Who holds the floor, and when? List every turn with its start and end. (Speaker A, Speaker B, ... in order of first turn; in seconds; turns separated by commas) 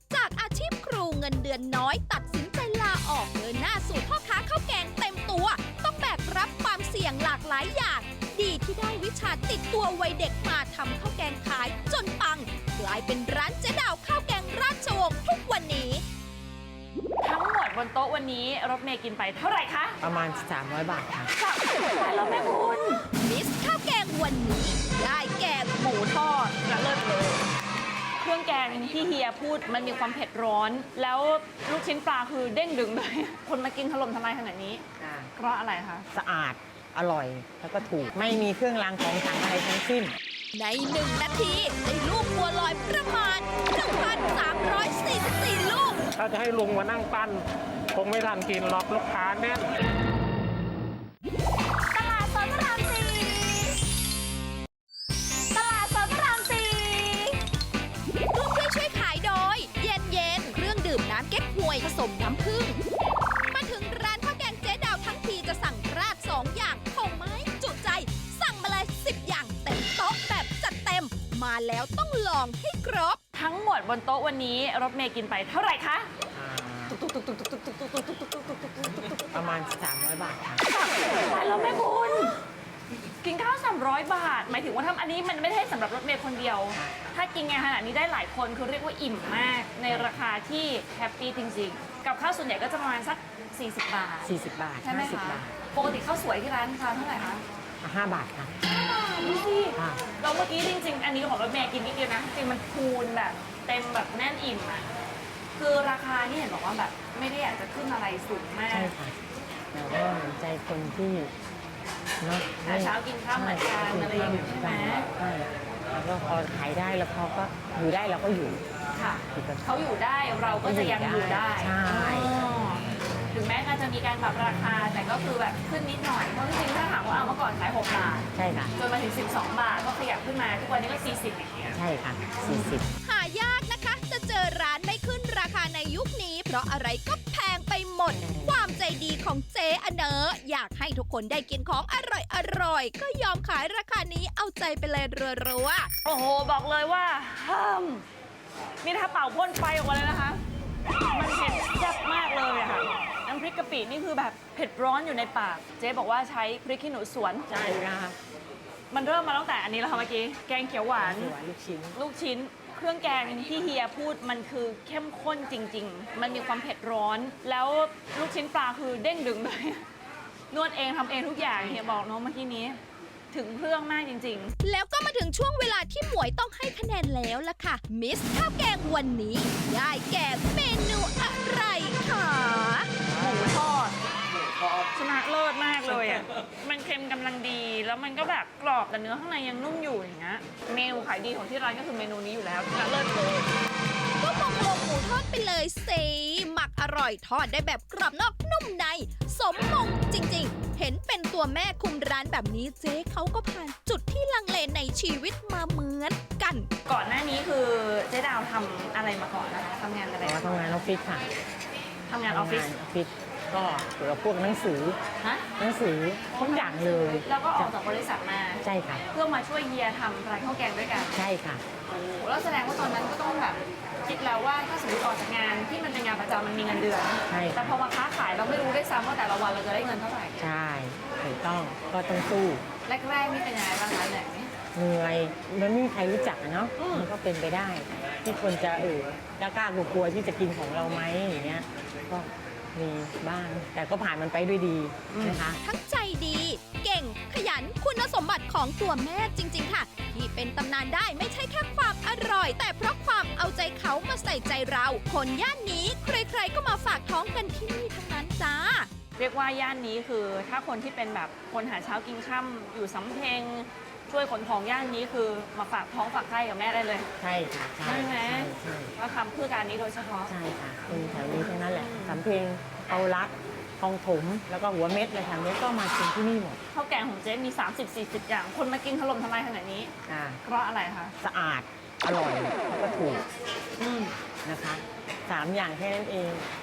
Speaker A: 0.1-16.0, Speaker B: 17.2-20.0, Speaker C: 20.0-21.3, Speaker B: 21.4-23.0, Speaker A: 23.1-26.1, Speaker B: 25.9-27.4, Speaker B: 28.2-34.8, Speaker C: 35.0-35.3, Speaker B: 35.4-36.1, Speaker C: 36.1-40.1, Speaker A: 40.5-46.0, Speaker D: 46.1-49.7, Speaker B: 51.9-53.8, Speaker B: 55.5-57.4, Speaker A: 58.3-62.8, Speaker A: 63.5-73.2, Speaker B: 73.3-76.1, Speaker C: 76.3-77.0, Speaker B: 76.9-79.5, Speaker C: 79.1-80.6, Speaker B: 80.7-82.4, Speaker B: 83.2-97.4, Speaker C: 86.7-87.0, Speaker C: 94.2-95.6, Speaker C: 97.8-98.6, Speaker B: 98.7-104.9, Speaker C: 99.7-100.0, Speaker B: 105.6-108.9, Speaker C: 108.7-109.2, Speaker C: 109.7-111.3, Speaker C: 112.2-118.6, Speaker B: 112.6-115.1, Speaker B: 118.9-131.8, Speaker C: 119.3-119.7, Speaker C: 120.4-122.3, Speaker C: 128.3-128.7, Speaker C: 131.8-132.9, Speaker A: 133.0-145.9, Speaker B: 146.0-148.1, Speaker B: 148.8-150.4, Speaker B: 151.1-157.5, Speaker C: 157.5-158.2, Speaker B: 158.9-161.3, Speaker C: 161.0-162.0, Speaker B: 161.9-169.8, Speaker B: 170.5-172.8, Speaker C: 171.7-171.9, Speaker B: 173.3-174.6, Speaker A: 174.6-182.9, Speaker B: 183.1-183.9, Speaker B: 184.9-193.5, Speaker A: 194.2-206.7, Speaker B: 206.8-210.5, Speaker C: 210.2-211.3, Speaker B: 212.1-212.7, Speaker C: 212.3-215.0, Speaker B: 215.2-215.4, Speaker C: 215.6-217.7, Speaker B: 216.3-221.2, Speaker C: 218.6-219.0, Speaker C: 221.1-221.6, Speaker B: 221.9-230.4, Speaker C: 227.3-227.8, Speaker C: 230.4-232.7, Speaker B: 232.8-234.5, Speaker C: 234.7-245.6, Speaker B: 236.8-237.1, Speaker B: 245.1-245.5, Speaker A: 245.6-258.9, Speaker B: 259.2-267.1, Speaker C: 267.2-268.9, Speaker B: 267.8-270.3, Speaker C: 270.3-276.6, Speaker B: 270.9-272.2, Speaker B: 276.7-279.9, Speaker C: 280.1-280.4, Speaker B: 280.4-281.1, Speaker C: 281.2-283.3, Speaker B: 283.8-284.1, Speaker C: 284.4-286.5